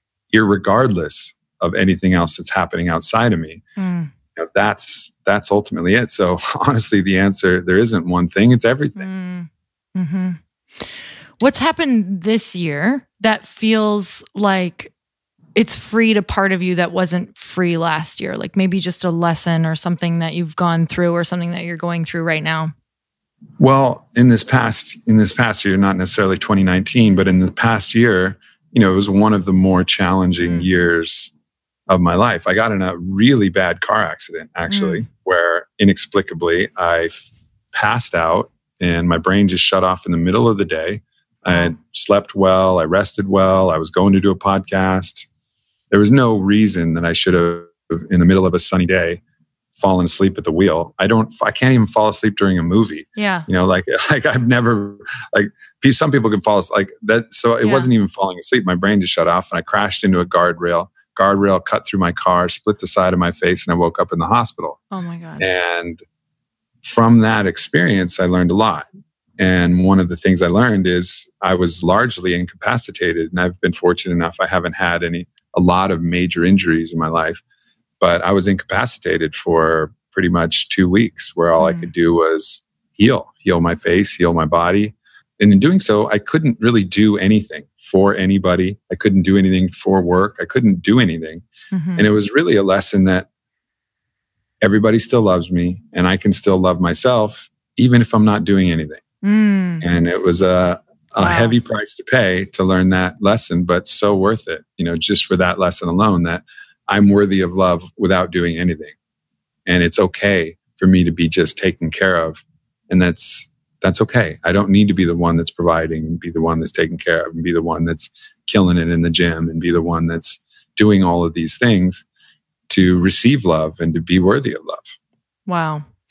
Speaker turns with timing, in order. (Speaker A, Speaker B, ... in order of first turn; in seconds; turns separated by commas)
Speaker A: 0.3-3.6, Speaker B: 3.8-4.1, Speaker A: 4.4-9.1, Speaker B: 9.0-10.4, Speaker B: 11.4-14.9, Speaker B: 15.6-22.7, Speaker A: 23.6-31.3, Speaker A: 31.9-45.3, Speaker B: 34.7-35.0, Speaker A: 45.9-49.2, Speaker A: 49.8-64.8, Speaker B: 53.2-53.5, Speaker B: 57.6-57.9, Speaker B: 64.9-65.5, Speaker A: 65.4-66.0, Speaker A: 66.8-68.9, Speaker A: 69.4-77.4, Speaker A: 78.0-91.5, Speaker B: 81.6-81.9, Speaker B: 91.7-92.1, Speaker A: 92.0-93.3, Speaker A: 94.6-99.0, Speaker B: 99.2-99.8, Speaker A: 99.8-109.0, Speaker B: 101.2-101.5, Speaker A: 109.7-122.0, Speaker A: 122.7-125.0, Speaker B: 125.5-125.9